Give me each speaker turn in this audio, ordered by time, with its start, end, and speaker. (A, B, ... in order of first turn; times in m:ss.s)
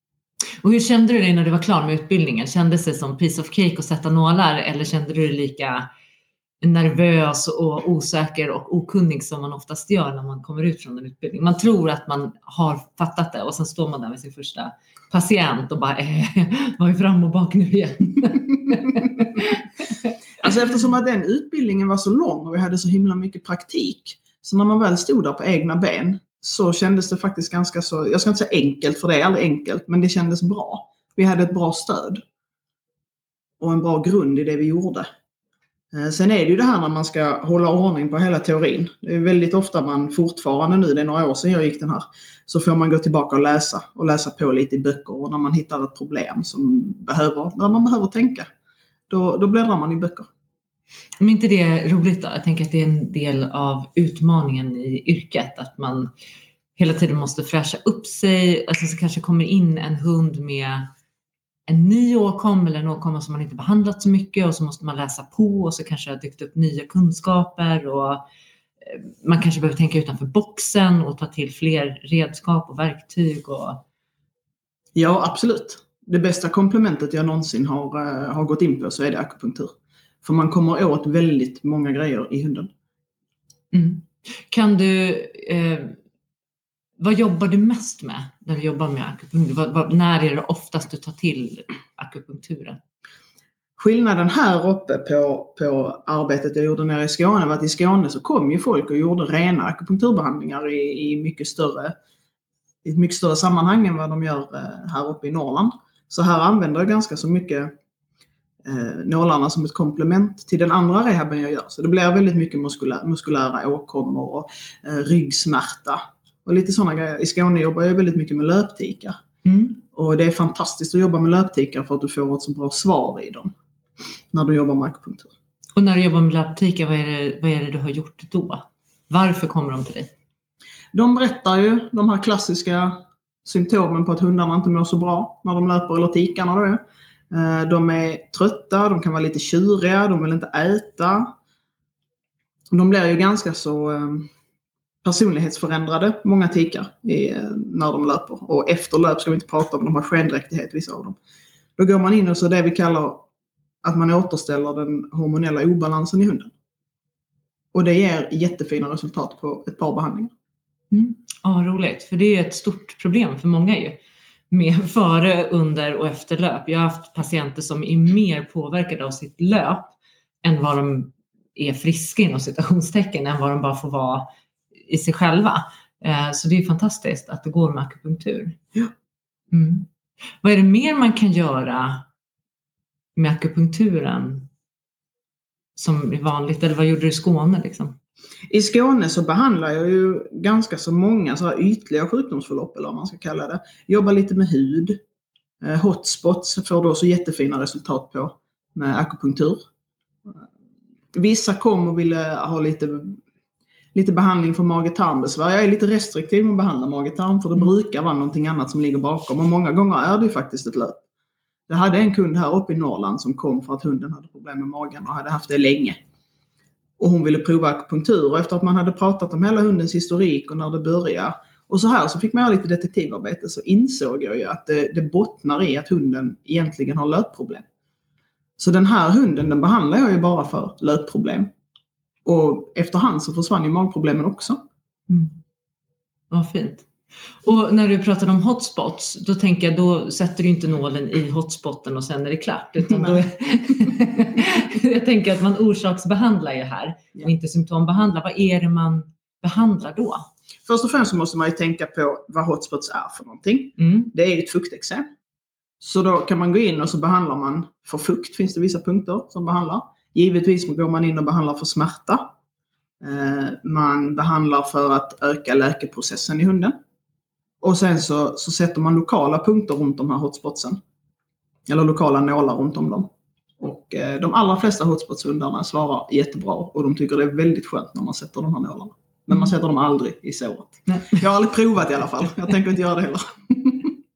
0:00.6-0:05.9 A
0:06.6-0:20.1 A
0:20.4-0:32.2 B
0:33.6-0:35.1 B
0:35.9-0:48.5 B
0:49.1-0:50.3 B
0:51.2-0:56.1 A
0:56.8-1:00.9 A
1:01.7-1:08.2 A
1:08.9-1:13.8 A
1:15.0-1:22.7 B
1:23.7-1:26.0 A
1:27.0-1:32.8 A
1:33.8-1:41.9 B
1:42.8-1:47.8 B
1:48.6-1:59.2 B
1:59.4-1:59.8 A
1:59.9-2:03.5 B
2:04.3-2:05.3 B
2:05.8-2:10.1 A
2:10.9-2:21.4 B
2:22.7-2:24.3 B
2:25.0-2:31.2 B
2:31.8-2:33.3 B
2:33.8-2:36.5 B
2:37.7-2:40.3 B
2:40.9-2:44.0 A
2:44.5-2:54.3 A
2:54.9-2:58.6 A
2:59.5-2:59.9 A
3:00.4-3:02.1 A
3:03.2-3:04.5 A
3:05.8-3:08.0 A
3:08.5-3:15.0 B
3:15.6-3:19.6 B
3:21.1-3:23.2 B
3:23.9-3:31.0 B
3:31.7-3:36.0 B
3:37.0-3:47.6 B
3:48.6-3:51.5 B
3:52.2-3:54.6 B
3:55.1-3:55.4 A
3:56.3-3:56.9 A
3:57.4-4:10.3 A
4:02.9-4:03.2 B
4:10.7-4:15.1 B
4:13.8-4:14.1 A
4:15.8-4:22.3 B
4:23.0-4:26.8 B
4:27.6-4:30.8 B
4:31.7-4:43.9 B